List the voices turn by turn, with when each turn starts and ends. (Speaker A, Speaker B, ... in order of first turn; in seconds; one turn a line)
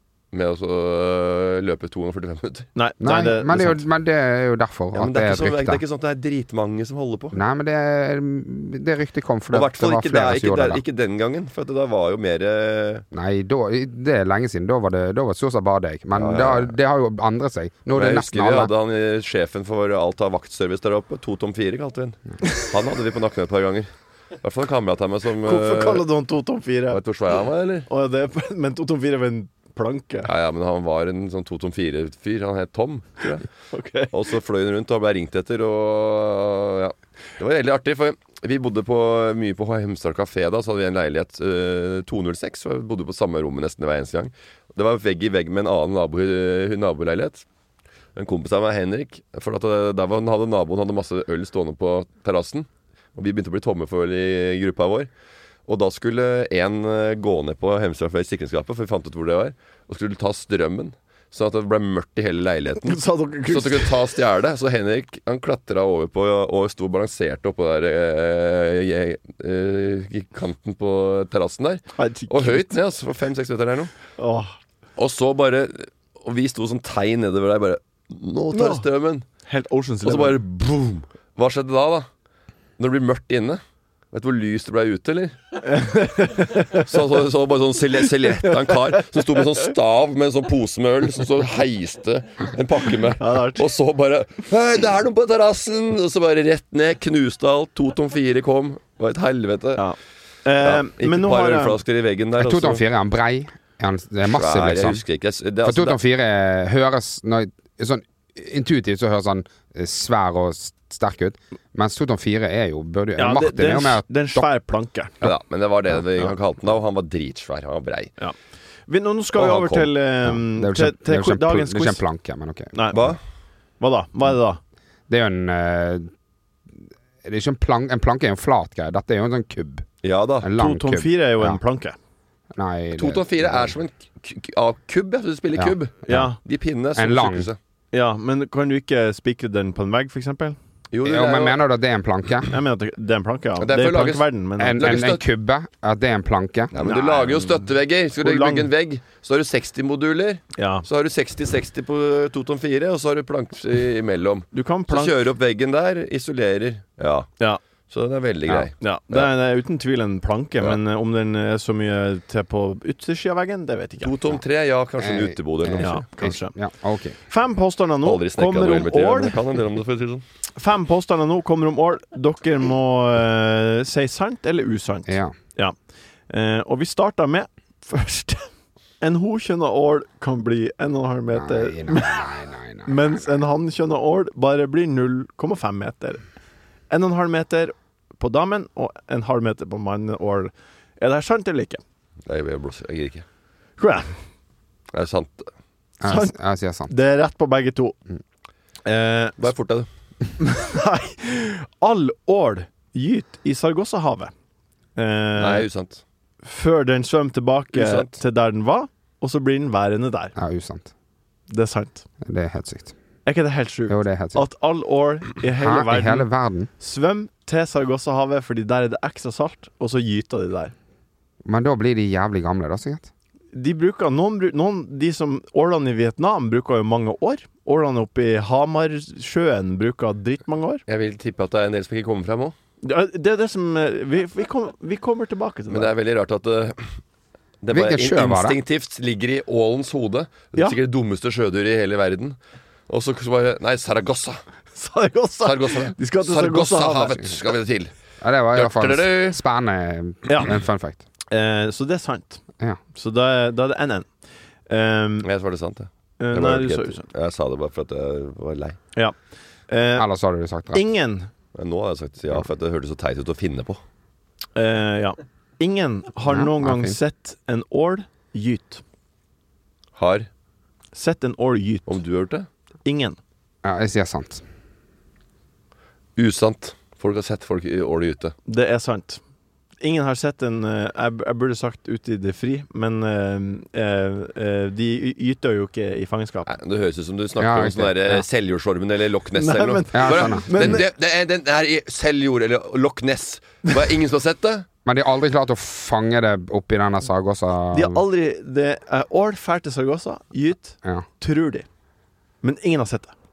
Speaker A: 0.3-2.7
Speaker B: 2.7-3.8
Speaker C: 3.0-5.8
Speaker A: 4.9-7.4
Speaker C: 7.3-10.8
Speaker A: 9.5-13.0
Speaker C: 13.1-18.7
Speaker A: 16.1-16.7
Speaker A: 17.9-23.9
Speaker A: 24.4-26.0
Speaker B: 25.4-27.0
Speaker A: 26.9-27.9
Speaker B: 27.9-30.3
Speaker A: 30.2-33.5
Speaker B: 33.7-34.1
Speaker A: 34.1-47.4
Speaker A: 48.1-55.1
Speaker A: 55.7-73.9
Speaker B: 62.8-63.9
Speaker B: 72.0-72.7
Speaker B: 74.2-74.5
Speaker A: 75.0-79.2
Speaker B: 78.5-78.8
Speaker B: 79.5-80.4
Speaker A: 80.0-82.1
Speaker A: 82.8-83.6
Speaker A: 84.1-85.4
Speaker B: 85.6-87.0
Speaker A: 86.7-99.8
Speaker B: 88.4-89.4
Speaker B: 93.2-93.6
Speaker B: 99.8-101.8
Speaker A: 100.6-102.8
Speaker C: 102.4-105.0
Speaker A: 104.3-106.0
Speaker C: 105.6-114.5
Speaker B: 113.2-115.1
Speaker A: 115.2-118.1
Speaker B: 118.9-122.0
Speaker A: 119.3-119.9
Speaker C: 120.2-122.7
Speaker B: 122.7-123.1
Speaker A: 122.9-123.2
Speaker B: 123.8-124.6
Speaker C: 125.1-126.1
Speaker C: 127.2-129.9
Speaker A: 130.0-130.5
Speaker C: 130.4-131.6
Speaker B: 130.6-131.9
Speaker C: 132.5-133.7
Speaker A: 132.9-137.6
Speaker C: 135.6-136.3
Speaker B: 136.1-136.4
Speaker C: 136.9-137.5
Speaker B: 137.9-140.6
Speaker A: 140.9-141.6
Speaker C: 141.0-142.5
Speaker B: 142.5-145.0
Speaker A: 143.6-145.2
Speaker C: 144.6-146.7
Speaker A: 146.7-157.3
Speaker B: 146.8-147.6
Speaker B: 148.2-148.7
Speaker B: 150.6-150.8
Speaker B: 154.5-155.1
Speaker A: 157.9-159.3
Speaker B: 158.5-164.1
Speaker A: 164.0-166.0
Speaker C: 165.0-167.2
Speaker B: 165.8-166.6
Speaker B: 167.3-169.4
Speaker A: 168.0-170.2
Speaker B: 170.6-175.7
Speaker C: 175.1-175.3
Speaker B: 176.3-178.5
Speaker B: 179.0-182.3
Speaker C: 181.3-183.2
Speaker B: 182.8-186.2
Speaker B: 186.9-191.8
Speaker A: 192.3-193.2
Speaker B: 193.8-194.1
Speaker A: 194.9-195.5
Speaker C: 196.0-196.9
Speaker B: 196.0-196.4
Speaker B: 196.9-197.9
Speaker B: 198.8-199.4
Speaker A: 199.4-199.9
Speaker B: 200.4-204.3
Speaker B: 204.9-205.7
Speaker A: 205.4-206.0
Speaker B: 206.4-210.3
Speaker A: 207.7-208.1
Speaker C: 210.3-210.9
Speaker B: 211.5-212.0
Speaker C: 212.2-212.9
Speaker B: 213.2-216.3
Speaker C: 213.9-214.4
Speaker C: 215.6-216.7
Speaker B: 216.8-220.7
Speaker C: 221.4-223.1
Speaker B: 223.5-230.8
Speaker A: 230.9-232.5
Speaker B: 232.8-235.9
Speaker A: 235.7-236.9
Speaker A: 237.6-242.4
Speaker C: 237.7-238.6
Speaker A: 242.9-244.4
Speaker B: 244.7-247.2
Speaker A: 245.4-247.9
Speaker C: 248.2-251.0
Speaker A: 248.5-249.4
Speaker B: 250.2-250.5
Speaker B: 251.3-252.4
Speaker B: 252.9-254.1
Speaker B: 254.7-255.3
Speaker A: 255.2-258.8
Speaker B: 256.2-257.0
Speaker B: 259.7-260.1
Speaker C: 260.0-260.8
Speaker B: 260.7-261.3
Speaker A: 261.5-263.8
Speaker B: 264.6-268.8
Speaker C: 266.2-267.0
Speaker A: 270.0-270.3
Speaker B: 270.9-272.0
Speaker A: 271.9-272.5
Speaker B: 272.8-273.2
Speaker C: 273.6-274.4
Speaker A: 276.1-278.3
Speaker B: 278.5-279.2
Speaker B: 279.8-286.5
Speaker A: 286.5-294.6
Speaker C: 287.4-288.2
Speaker B: 289.4-290.8
Speaker C: 289.9-290.8
Speaker C: 294.8-298.0
Speaker B: 297.7-301.6
Speaker B: 302.4-303.1